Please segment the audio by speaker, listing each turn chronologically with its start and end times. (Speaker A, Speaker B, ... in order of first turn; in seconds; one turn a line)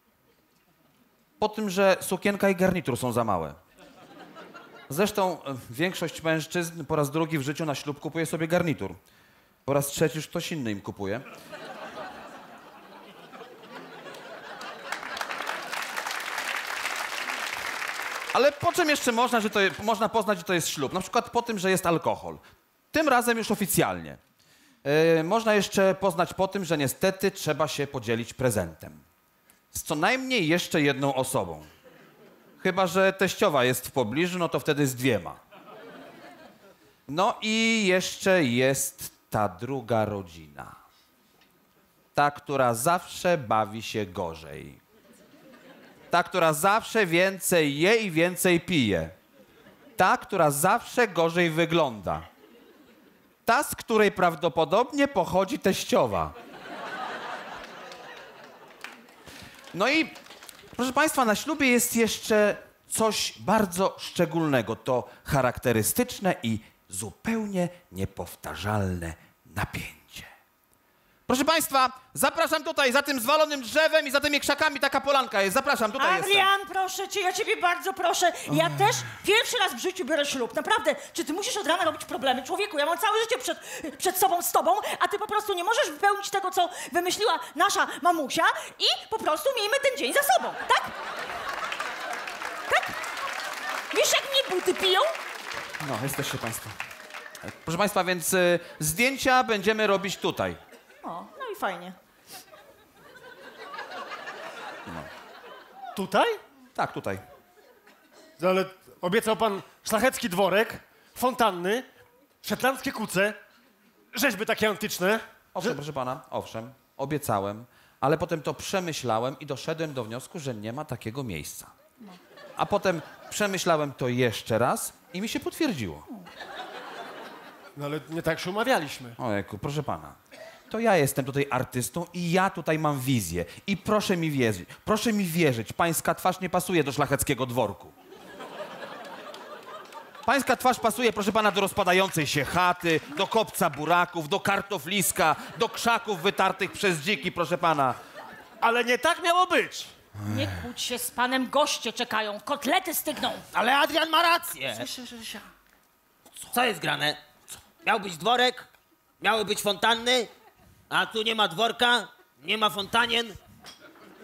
Speaker A: 1.4-3.6
Speaker A: 4.9-9.0
Speaker A: 9.7-11.2
Speaker A: 18.3-22.4
Speaker A: 22.9-24.2
Speaker A: 24.8-29.0
Speaker A: 29.7-31.7
Speaker A: 32.6-35.4
Speaker A: 37.1-40.8
Speaker A: 42.1-44.8
Speaker A: 46.1-49.1
Speaker A: 50.0-52.2
Speaker A: 53.5-56.3
Speaker A: 59.7-60.1
Speaker A: 60.8-70.3
Speaker A: 71.3-76.5
Speaker B: 76.0-90.9
Speaker B: 93.9-95.1
Speaker A: 95.8-96.7
Speaker A: 97.4-100.6
Speaker B: 101.0-102.0
Speaker C: 105.9-106.4
Speaker A: 106.8-107.2
Speaker C: 108.4-111.8
Speaker C: 112.4-113.4
Speaker C: 114.1-115.8
Speaker A: 115.5-121.7
Speaker A: 122.6-126.0
Speaker C: 127.7-129.2
Speaker A: 129.2-130.2
Speaker A: 130.7-137.9
Speaker A: 140.2-148.0
Speaker C: 148.6-149.9
Speaker B: 150.2-153.4
Speaker D: 153.5-154.9
Speaker C: 154.8-155.4
Speaker D: 156.5-157.2
Speaker D: 157.8-158.7
Speaker D: 159.2-160.3
Speaker D: 160.9-163.4